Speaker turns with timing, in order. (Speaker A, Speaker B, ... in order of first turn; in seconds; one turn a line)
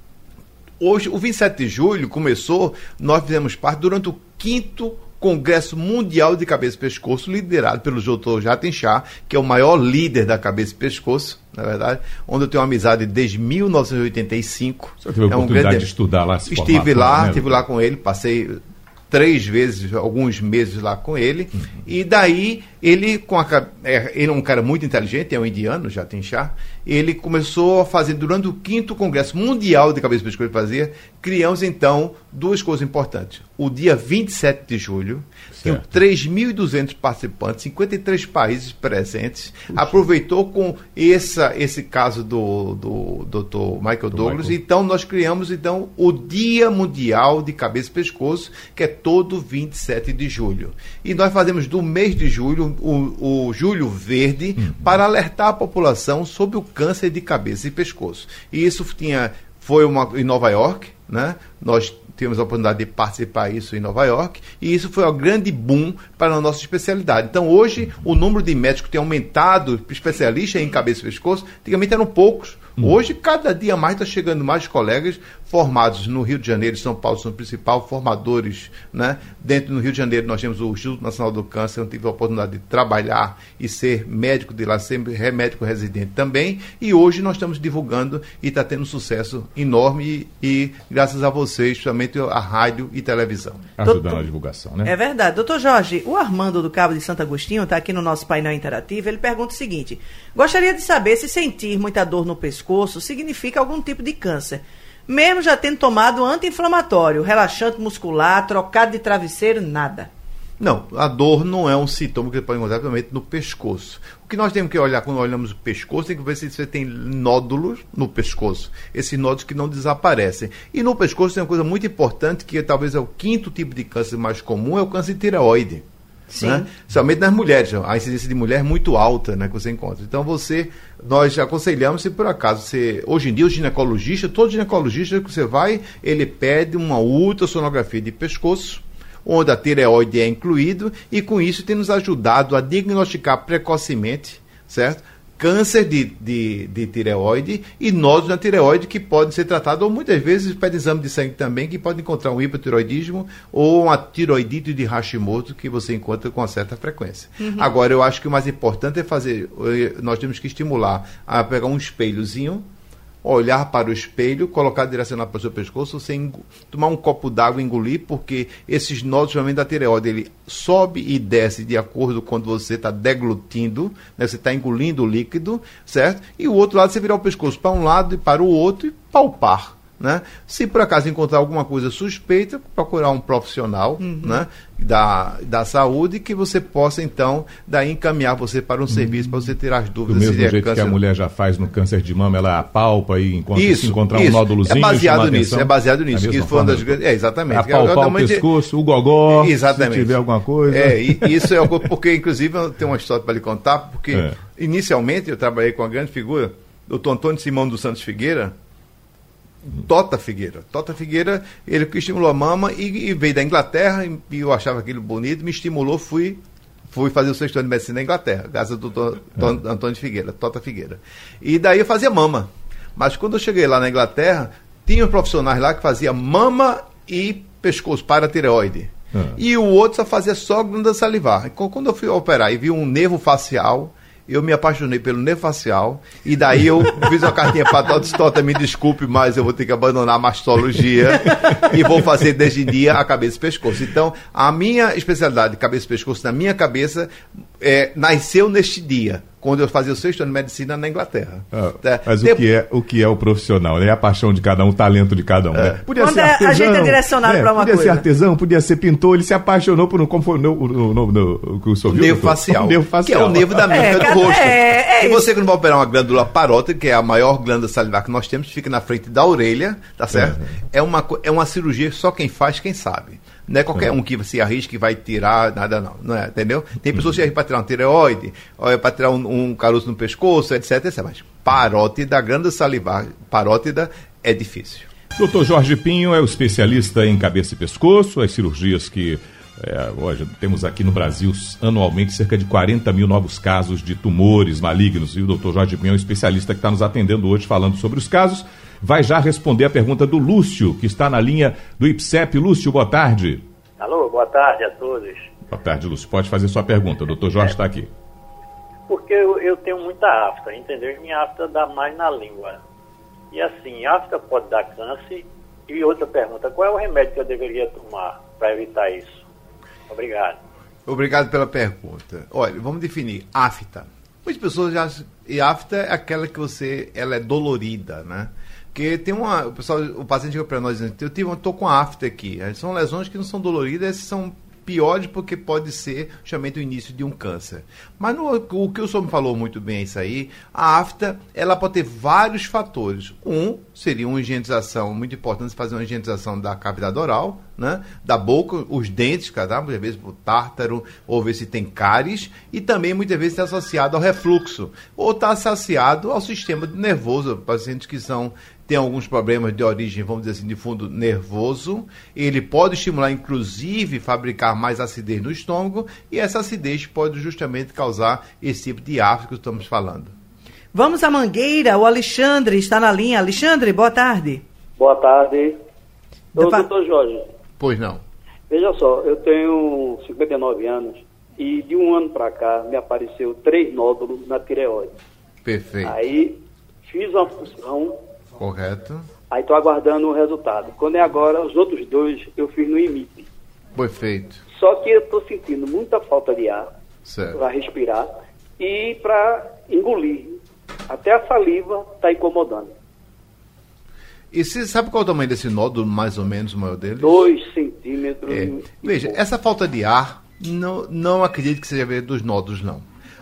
Speaker A: 0.8-15.9
Speaker B: 15.0-17.6
Speaker A: 16.4-93.7
Speaker B: 35.5-35.8
Speaker B: 44.2-44.5
Speaker B: 93.8-94.9
Speaker C: 93.8-94.2
Speaker C: 94.8-110.1
Speaker A: 110.6-125.8
Speaker C: 126.3-126.7
Speaker A: 126.4-162.7
Speaker C: 157.4-157.7
Speaker A: 163.2-191.0
Speaker C: 184.0-184.4
Speaker B: 190.1-201.7
Speaker A: 193.5-198.4
Speaker A: 199.3-208.5
Speaker A: 209.6-252.4
Speaker B: 251.5-264.3
Speaker A: 255.5-255.8
Speaker C: 256.0-258.0
Speaker A: 261.9-284.9
Speaker C: 263.7-265.3
Speaker B: 270.1-270.4
Speaker B: 285.1-303.4
Speaker D: 303.8-305.3
Speaker B: 305.5-307.9
Speaker D: 308.9-312.6
Speaker D: 313.3-319.2
Speaker D: 319.9-320.4
Speaker A: 320.9-370.1
Speaker C: 370.7-374.4
Speaker E: 374.8-375.6
Speaker C: 376.3-376.7
Speaker E: 376.4-377.2
Speaker A: 377.6-378.0
Speaker E: 378.5-384.9
Speaker A: 385.4-386.0
Speaker E: 385.8-387.9
Speaker A: 388.4-389.1
Speaker E: 389.3-393.3
Speaker A: 393.7-394.4
Speaker E: 394.5-396.7
Speaker A: 397.1-397.4
Speaker E: 397.3-398.1
Speaker E: 398.6-400.4
Speaker E: 400.9-402.7
Speaker A: 404.3-407.3
Speaker E: 407.0-409.1
Speaker A: 408.2-412.9